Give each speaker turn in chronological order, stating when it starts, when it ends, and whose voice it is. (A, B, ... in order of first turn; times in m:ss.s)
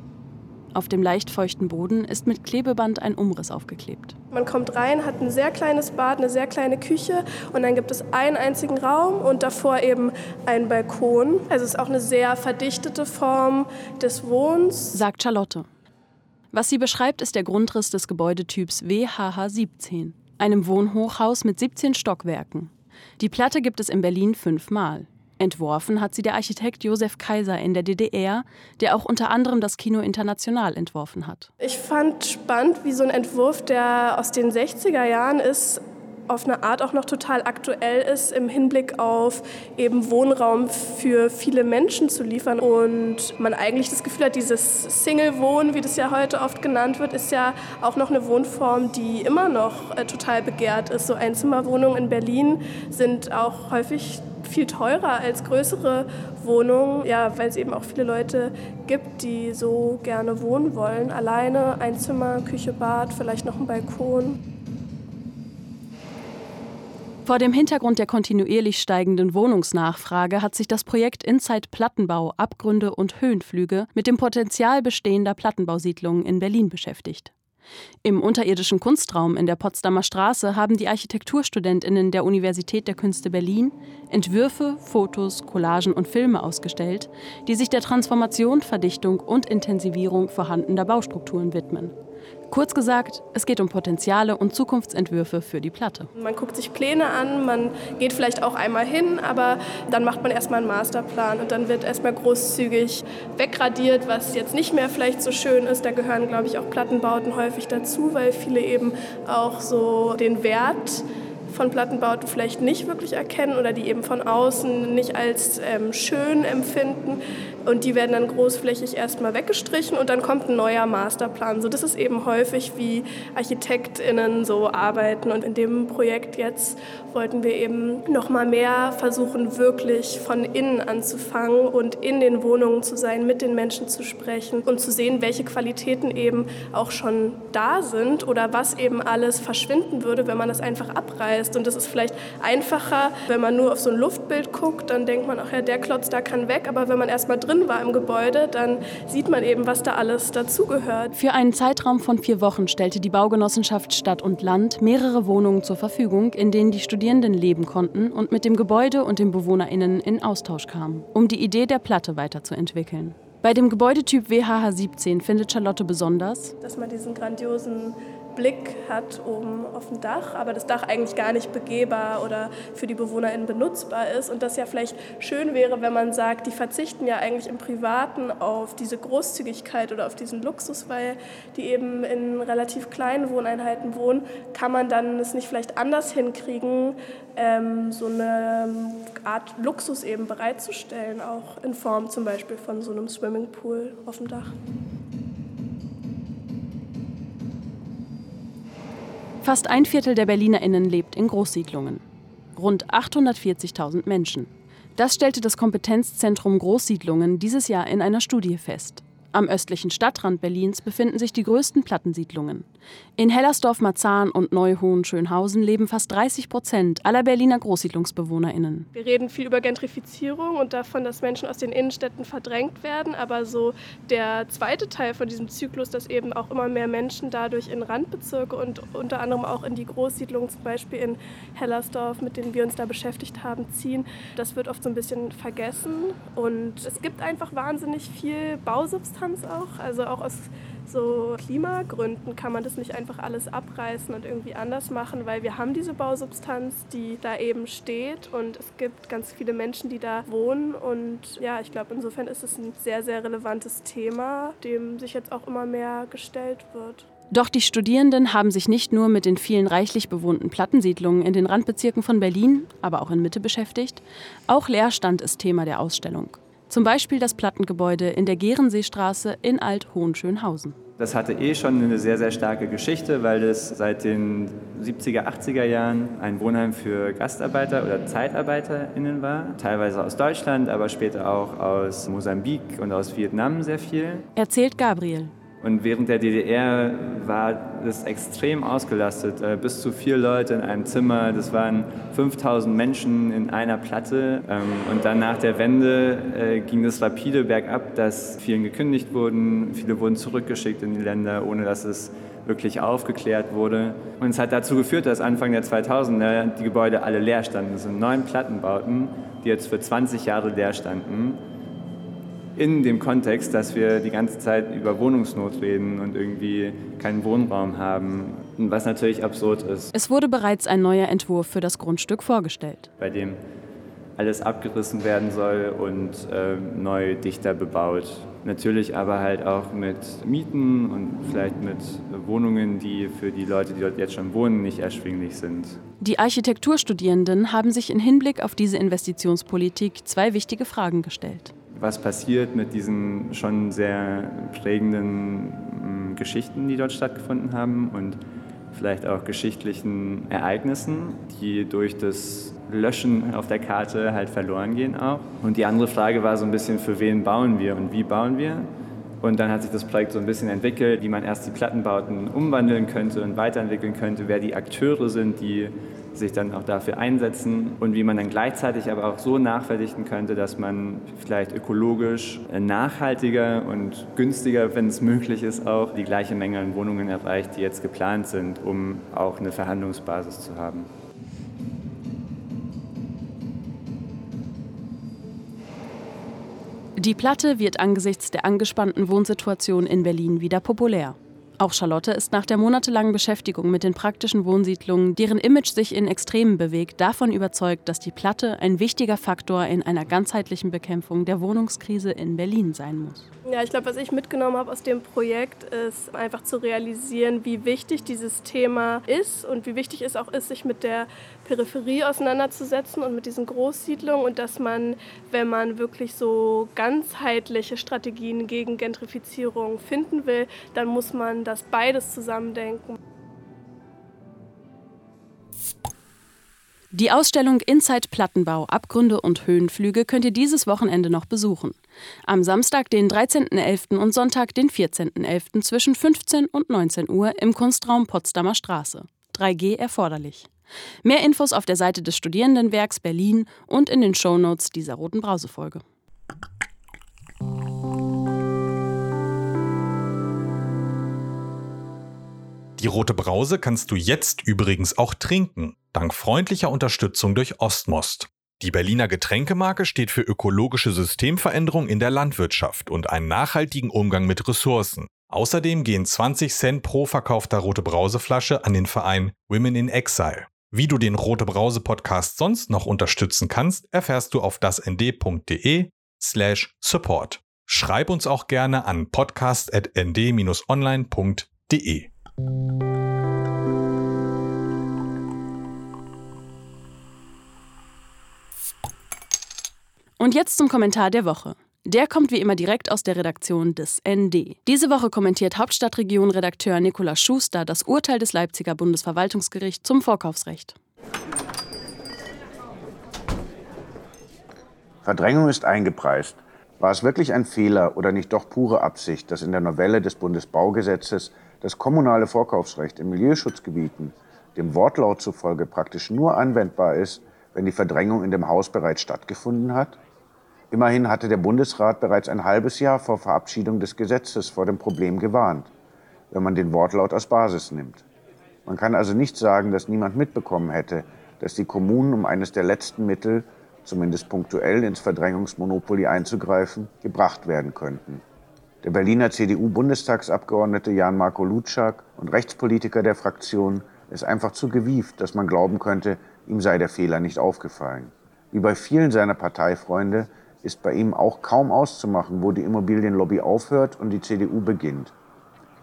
0:00.7-0:04.2 A
0:04.3-0:14.9 B
0:14.9-0:15.7 A
0:16.5-0:31.5 A
0:31.6-1:04.4 B
1:07.2-1:17.3 A
1:18.0-1:31.9 A
1:32.5-1:36.1 A
1:36.2-2:31.1 B
2:31.1-2:46.5 A
2:46.6-3:14.5 B
3:19.4-3:22.0 A
3:22.5-3:32.6 A
3:33.2-3:38.9 A
3:38.9-4:17.0 B
4:17.3-4:30.8 A
4:31.0-4:44.2 C
4:44.4-4:45.3 A
4:45.6-5:11.4 C
5:12.6-5:19.9 C
5:19.9-5:22.9 A
5:23.0-5:23.4 C
5:24.2-5:35.8 C
5:36.0-5:41.5 A
5:41.7-5:48.2 C
5:48.7-5:58.7 C
5:59.2-6:20.9 C
6:27.0-6:43.3 A
6:43.5-7:03.0 B
7:06.9-7:20.5 A
7:21.0-7:25.8 A
7:32.8-8:02.1 D
8:10.2-8:20.8 A
8:25.0-8:40.0 E
8:40.7-8:45.7 E
8:46.3-8:48.0 E
8:48.6-8:58.2 E
8:58.8-9:15.1 E